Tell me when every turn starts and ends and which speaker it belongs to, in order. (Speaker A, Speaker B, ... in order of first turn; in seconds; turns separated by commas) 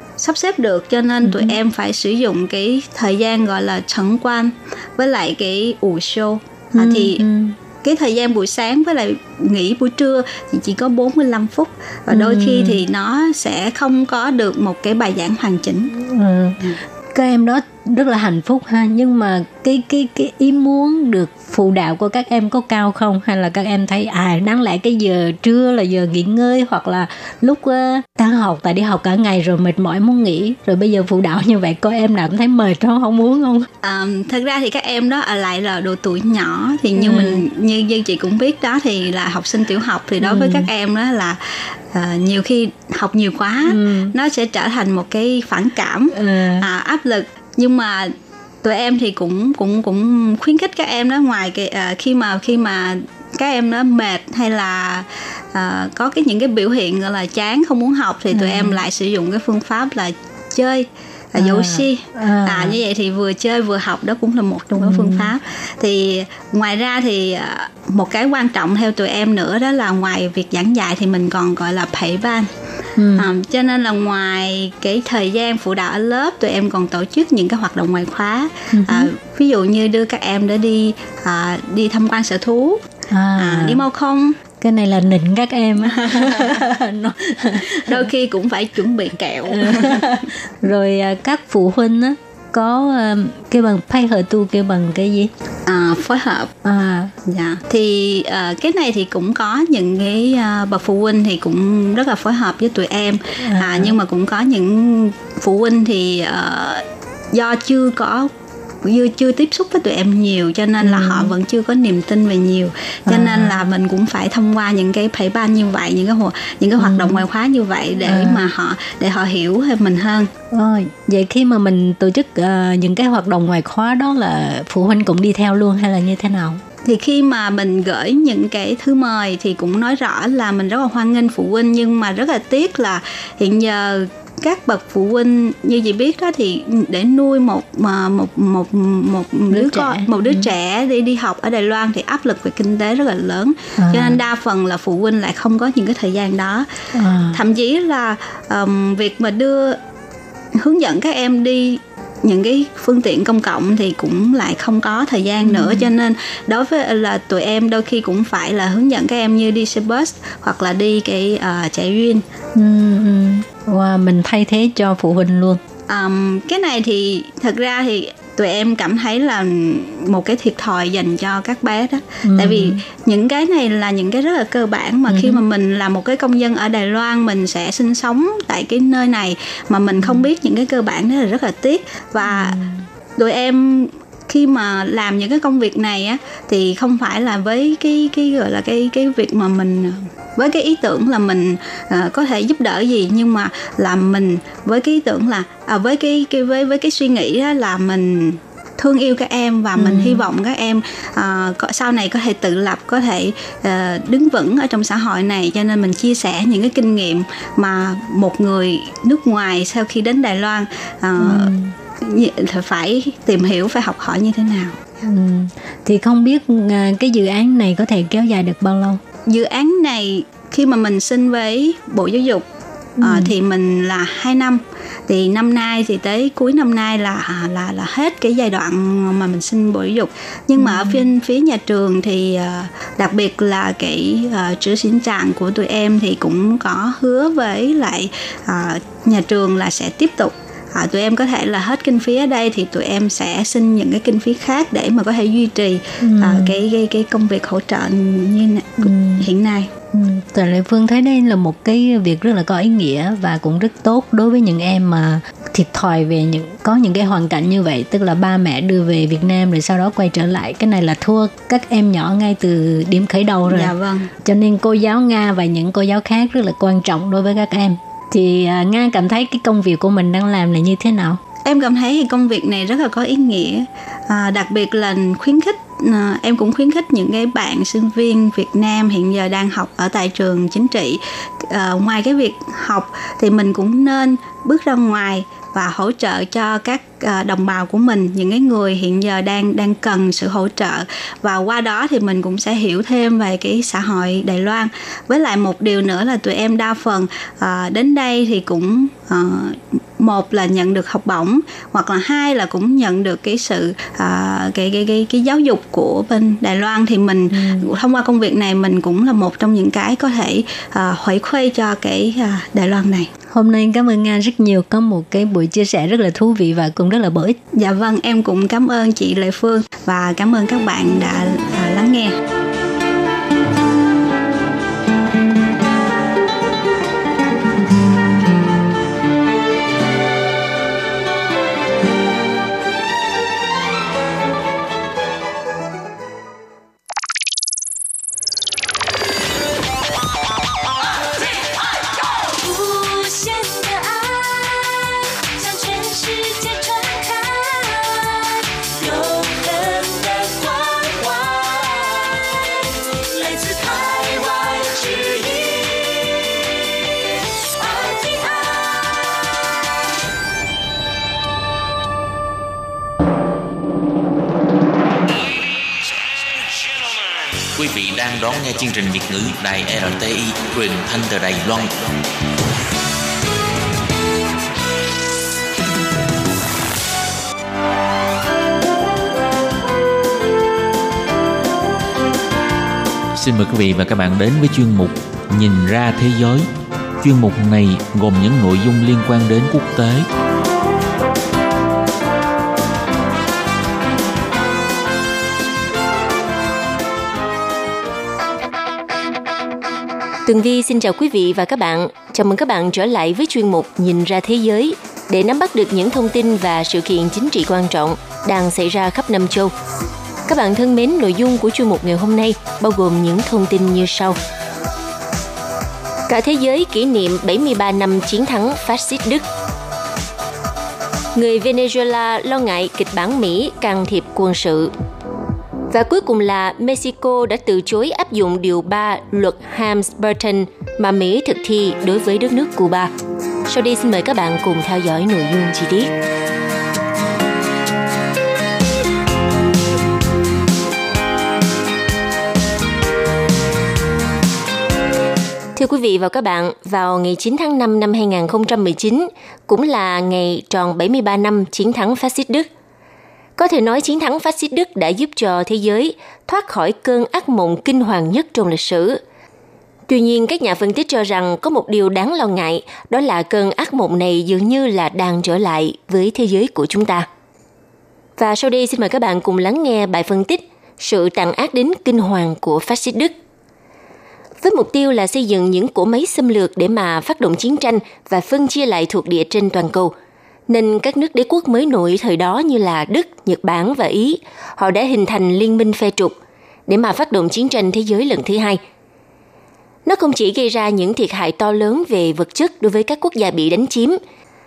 Speaker A: 0.2-7.2, Speaker B: 1.2-1.6, Speaker B: 6.8-7.6, Speaker A: 7.8-15.9, Speaker B: 12.1-12.8, Speaker B: 15.9-33.7, Speaker A: 33.8-72.5, Speaker B: 37.0-37.4, Speaker B: 40.2-40.7, Speaker B: 43.7-44.1, Speaker B: 46.1-46.7, Speaker B: 58.3-58.8, Speaker B: 61.4-62.8, Speaker B: 64.8-65.3, Speaker B: 73.0-73.3, Speaker A: 73.2-82.8, Speaker B: 78.7-79.1, Speaker B: 83.1-83.8, Speaker A: 83.4-84.4, Speaker B: 84.6-88.1, Speaker A: 86.0-86.6, Speaker A: 87.9-90.3, Speaker B: 89.5-95.3, Speaker A: 95.7-96.5, Speaker B: 96.6-97.1, Speaker A: 97.3-108.3, Speaker B: 103.4-104.0, Speaker A: 108.8-120.3, Speaker B: 110.8-111.3, Speaker B: 113.1-113.7, Speaker B: 116.8-117.2, Speaker B: 118.0-118.5, Speaker B: 120.5-126.6, Speaker A: 126.8-146.7, Speaker B: 139.5-140.5, Speaker B: 143.8-144.2, Speaker B: 146.9-147.4, Speaker A: 147.3-149.8, Speaker A: 150.6-162.2, Speaker B: 155.4-155.9, Speaker B: 162.6-165.6, Speaker A: 165.9-182.6, Speaker B: 172.2-172.8, Speaker B: 175.1-175.4, Speaker B: 180.0-180.3, Speaker B: 182.2-182.9, Speaker A: 183.2-214.8, Speaker B: 199.8-200.3, Speaker B: 211.2-211.7, Speaker B: 215.0-219.0, Speaker A: 219.3-222.5, Speaker B: 223.0-223.3, Speaker A: 223.0-249.7, Speaker B: 230.6-231.1, Speaker B: 246.0-246.6, Speaker B: 248.8-249.3, Speaker B: 249.9-263.7, Speaker A: 263.5-264.1, Speaker B: 264.2-271.2, Speaker A: 271.4-313.1, Speaker B: 307.3-307.7, Speaker B: 313.3-317.4, Speaker A: 317.6-322.2, Speaker C: 342.2-356.1, Speaker C: 357.5-359.0, Speaker D: 367.6-371.8, Speaker D: 383.1-386.5, Speaker D: 387.0-390.1, Speaker C: 400.3-409.5, Speaker C: 410.3-414.2, Speaker C: 416.1-419.3, Speaker C: 421.1-424.7, Speaker C: 425.7-432.9, Speaker C: 433.5-435.9, Speaker C: 445.6-452.5, Speaker C: 453.4-459.0, Speaker C: 459.9-467.1, Speaker C: 468.2-473.1, Speaker C: 474.4-479.9, Speaker C: 480.5-486.1, Speaker C: 486.7-488.6, Speaker C: 489.9-494.0